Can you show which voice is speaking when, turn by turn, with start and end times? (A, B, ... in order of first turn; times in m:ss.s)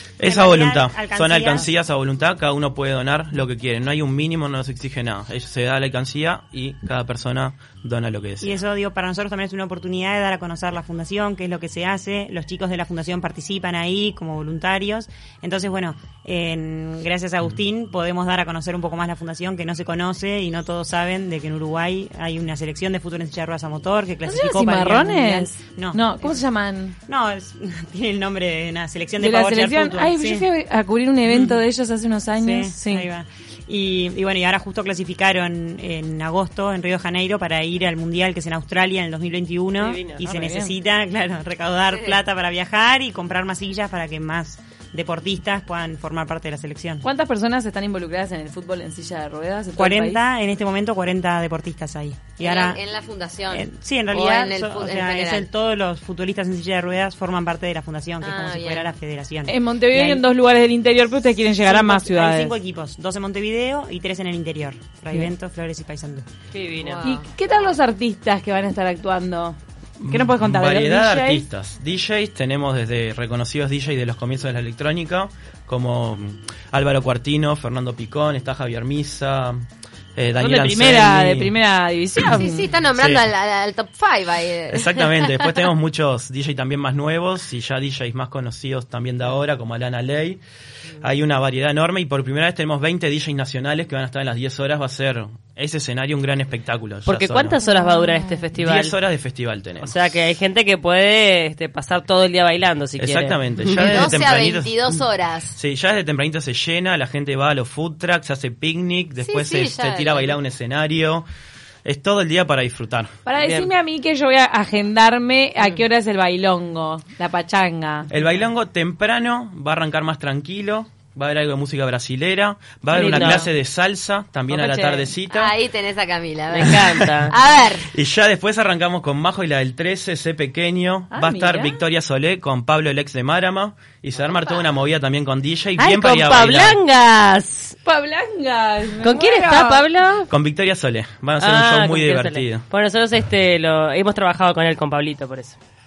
0:00.2-0:08.6 A
0:00.2-0:01.7 B
0:08.4-0:26.4 B
0:24.2-0:26.9 C
0:27.1-0:30.4 B
0:29.2-0:33.1 C
0:31.3-0:31.6 B
0:32.4-0:47.0 B
0:39.8-0:40.2 D
0:40.2-0:40.7 C
0:41.9-0:42.2 E
0:47.0-0:50.2 C
0:49.8-0:52.8 B
0:52.4-0:55.4 E
0:53.5-1:00.2 B
0:58.2-0:58.9 E
0:59.5-1:02.5 C
1:01.6-1:06.2 B
1:06.5-1:07.0 D
1:06.8-1:07.3 E
1:07.0-1:11.4 C
1:10.0-1:19.6 A
1:20.2-1:21.5 A
1:20.4-1:22.6 C
1:22.2-1:25.6 E
1:22.9-1:23.2 A
1:24.7-1:30.4 A
1:31.0-1:37.6 A
1:37.0-1:38.9 D
1:37.8-1:38.3 C
1:38.5-1:40.0 A
1:39.8-1:44.0 D
1:43.0-1:44.9 A
1:43.8-1:45.6 E
1:45.5-1:51.2 A
1:49.2-1:50.4 E
1:51.8-1:53.2 A
1:53.2-1:58.1 C
1:53.4-1:53.7 D
1:58.1-2:05.5 A
2:02.9-2:03.5 C
2:03.0-2:03.4 D
2:04.5-2:05.1 C
2:05.3-2:07.9 E
2:06.5-2:07.3 D
2:06.7-2:07.1 A
2:07.8-2:16.8 A
2:11.1-2:11.8 C
2:15.8-2:17.7 D
2:17.8-2:19.8 C
2:19.0-2:20.3 D
2:20.3-2:22.6 A
2:21.4-2:25.6 D